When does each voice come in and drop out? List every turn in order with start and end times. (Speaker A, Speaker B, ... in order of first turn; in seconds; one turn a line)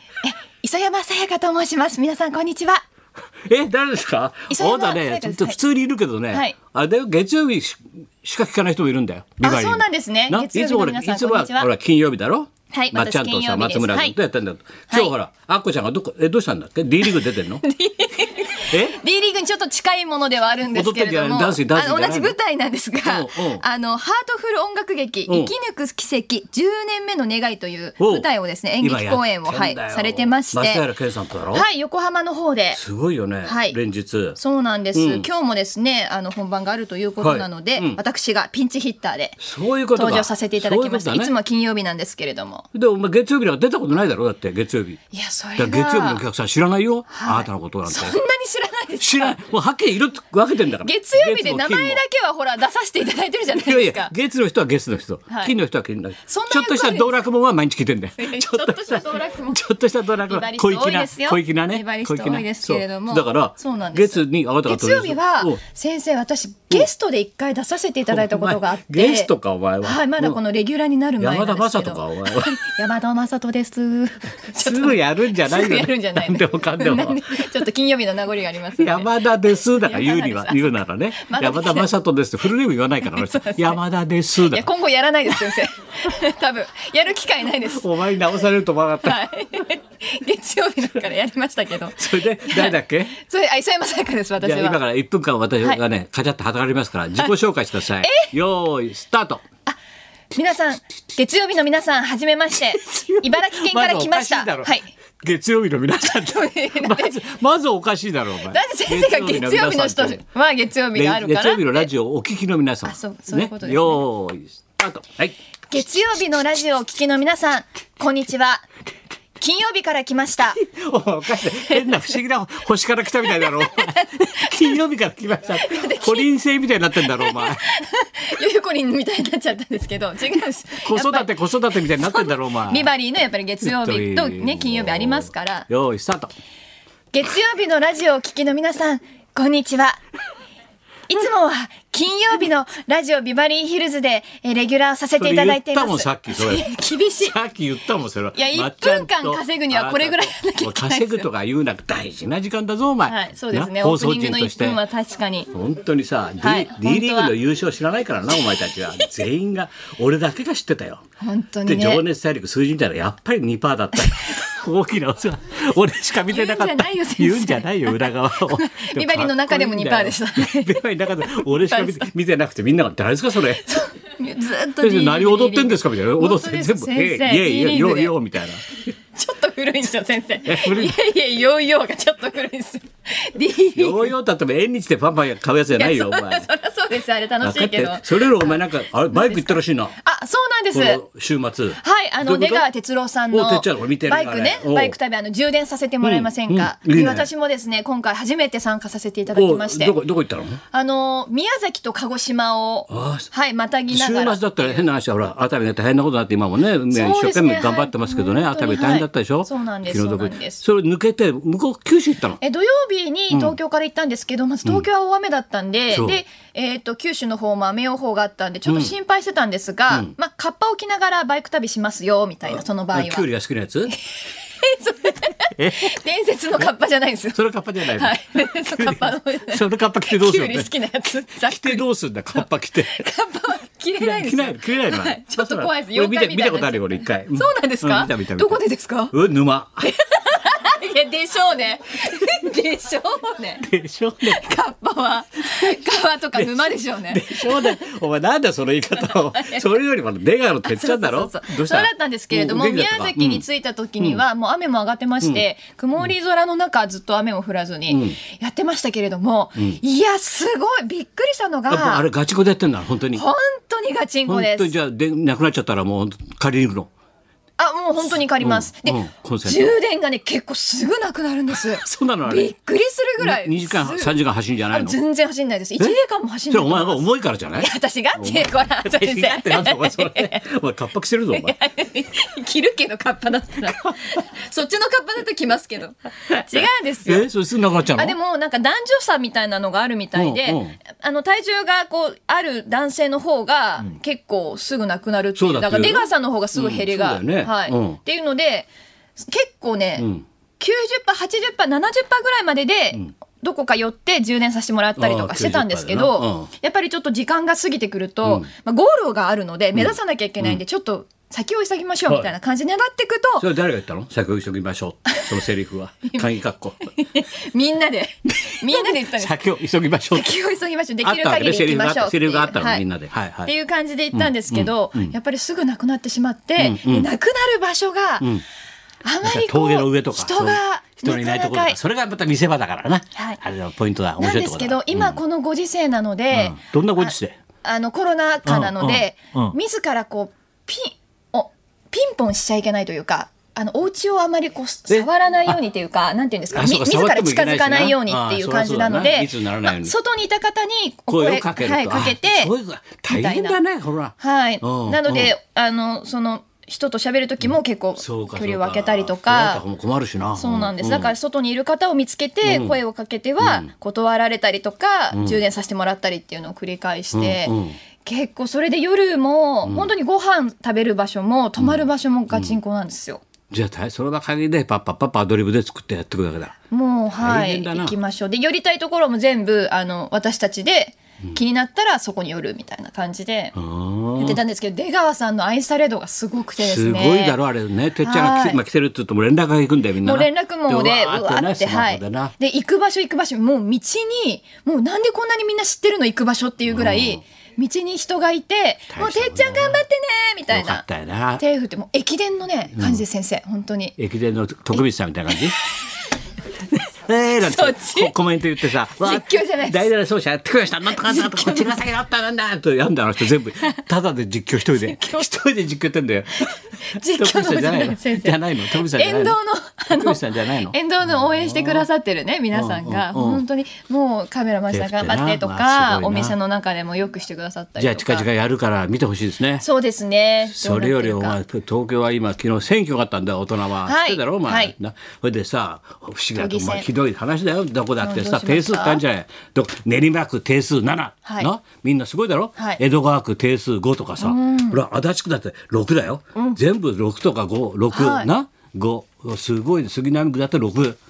Speaker A: 0.2-2.8
Speaker B: 3.5-17.6
Speaker A: 4.5-5.6
Speaker A: 9.4-11.7
Speaker A: 12.7-14.2
Speaker A: 17.6-30.8
Speaker B: 18.7-19.0
Speaker B: 20.7-22.4
Speaker B: 23.0-23.6
Speaker B: 25.3-25.5
Speaker B: 28.0-28.3
Speaker B: 28.8-31.6
Speaker A: 31.5-32.8
Speaker B: 32.7-34.4
Speaker A: 33.4-33.8
Speaker A: 34.4-39.4
Speaker B: 34.9-35.3
Speaker B: 37.2-38.0
Speaker B: 39.4-41.3
Speaker A: 39.9-42.7
Speaker B: 42.7-45.0
Speaker A: 45.1-46.2
Speaker B: 45.6-48.2
Speaker A: 47.1-49.4
Speaker B: 49.0-52.0
Speaker A: 50.8-54.1
Speaker B: 53.5-65.6
Speaker A: 56.3-57.1
Speaker A: 58.2-69.3
Speaker B: 68.1-70.4
Speaker A: 69.8-79.1
Speaker B: 71.2-72.6
Speaker B: 74.6-77.4
Speaker B: 78.8-84.7
Speaker A: 79.7-81.9
Speaker A: 83.0-83.8
Speaker A: 84.5-87.8
Speaker B: 87.7-89.2
Speaker A: 89.0-94.8
Speaker B: 92.0-93.2
Speaker B: 94.4-99.4
Speaker A: 98.0-98.3
Speaker A: 100.3-104.9
Speaker B: 102.7-110.2
Speaker A: 106.0-107.2
Speaker A: 108.5-111.9
Speaker B: 111.0-115.4
Speaker A: 112.8-114.0
Speaker A: 115.7-118.7
Speaker A: 119.4-120.6
Speaker B: 120.5-127.6
Speaker A: 121.4-122.2
Speaker A: 123.2-124.8
Speaker A: 125.5-126.3
Speaker A: 127.0-131.3
Speaker B: 130.8-132.9
Speaker A: 131.9-135.7
Speaker B: 133.6-136.3
Speaker A: 137.1-140.0
Speaker A: 141.1-147.4
Speaker B: 145.2-146.7
Speaker B: 147.2-154.8
Speaker A: 148.3-151.3
Speaker A: 153.1-155.5
Speaker B: 155.5-161.0
Speaker A: 156.4-157.3
Speaker A: 161.2-162.0
Speaker B: 161.7-173.7
Speaker A: 164.0-164.3
Speaker A: 166.3-172.1
Speaker A: 173.6-178.2
Speaker B: 174.8-178.7
Speaker A: 179.2-184.1
Speaker B: 180.5-181.0
Speaker B: 183.7-186.5
Speaker A: 185.7-191.0
Speaker B: 187.4-190.0
Speaker B: 190.7-192.7
Speaker A: 191.8-200.0
Speaker B: 193.3-195.0
Speaker B: 196.0-197.3
Speaker B: 199.3-200.6
Speaker A: 200.7-204.9
Speaker B: 202.9-203.3
Speaker B: 203.9-212.4
Speaker A: 206.9-210.6
Speaker A: 212.4-223.3
Speaker B: 213.3-213.6
Speaker B: 215.9-216.2
Speaker B: 218.7-218.9
Speaker B: 222.5-223.9
Speaker A: 224.5-239.1
Speaker B: 225.6-226.0
Speaker B: 227.3-230.7
Speaker B: 231.4-233.1
Speaker B: 234.0-238.6
Speaker B: 239.1-239.9
Speaker A: 239.8-243.7
Speaker B: 243.6-244.4
Speaker A: 244.2-247.9
Speaker B: 246.3-253.4
Speaker A: 249.0-249.8
Speaker A: 250.6-262.1
Speaker B: 257.9-258.2
Speaker B: 261.7-263.2
Speaker A: 263.1-264.7
Speaker B: 264.3-266.9
Speaker A: 267.6-274.2
Speaker B: 268.4-269.8
Speaker B: 271.7-272.5
Speaker B: 273.2-275.0
Speaker A: 274.7-277.1
Speaker B: 276.5-281.5
Speaker A: 277.6-280.4
Speaker A: 281.3-287.3
Speaker B: 286.3-288.1
Speaker A: 287.9-300.1
Speaker B: 290.1-290.8
Speaker B: 295.4-298.0
Speaker B: 300.0-300.3
Speaker A: 300.6-313.5
Speaker B: 305.0-306.5
Speaker B: 309.8-310.6
Speaker B: 313.4-316.8
Speaker A: 316.9-319.4
Speaker B: 318.4-320.3
Speaker A: 320.1-322.9
Speaker B: 321.0-323.5
Speaker A: 323.4-328.3
Speaker B: 324.1-325.1
Speaker B: 326.6-327.1
Speaker A: 329.1-331.8
Speaker B: 329.2-335.2
Speaker A: 333.1-333.4
Speaker A: 334.2-352.5
Speaker B: 336.3-337.4
Speaker B: 338.4-339.6
Speaker B: 344.9-345.6
Speaker B: 346.5-350.0
Speaker B: 351.1-355.3
Speaker A: 353.1-353.6
Speaker A: 354.2-359.6
Speaker B: 358.0-361.1
Speaker A: 360.4-373.2
Speaker B: 362.5-362.8
Speaker B: 363.4-363.7
Speaker B: 365.1-365.4
Speaker B: 367.1-367.8
Speaker B: 371.6-372.6
Speaker B: 373.5-376.6
Speaker A: 376.7-383.6
Speaker B: 377.2-378.0
Speaker B: 383.6-384.4
Speaker A: 384.2-387.4
Speaker B: 386.6-392.3
Speaker A: 388.0-388.6
Speaker A: 390.0-400.9
Speaker B: 396.7-397.2
Speaker B: 398.9-399.8
Speaker B: 400.5-401.4
Speaker A: 401.4-404.0
Speaker B: 402.8-403.0
Speaker B: 404.0-405.6
Speaker A: 405.3-405.8
Speaker B: 407.0-419.4
Speaker A: 407.4-408.1
Speaker A: 408.8-409.9
Speaker A: 411.0-411.8
Speaker A: 414.8-415.3
Speaker A: 416.9-428.3
Speaker B: 419.9-421.9
Speaker B: 422.5-423.4
Speaker B: 424.7-426.4
Speaker B: 427.8-429.6
Speaker A: 429.6-431.4
Speaker B: 430.5-451.0
Speaker A: 433.8-434.7
Speaker A: 436.4-436.9
Speaker A: 438.0-439.0
Speaker A: 444.2-444.8
Speaker A: 447.9-448.3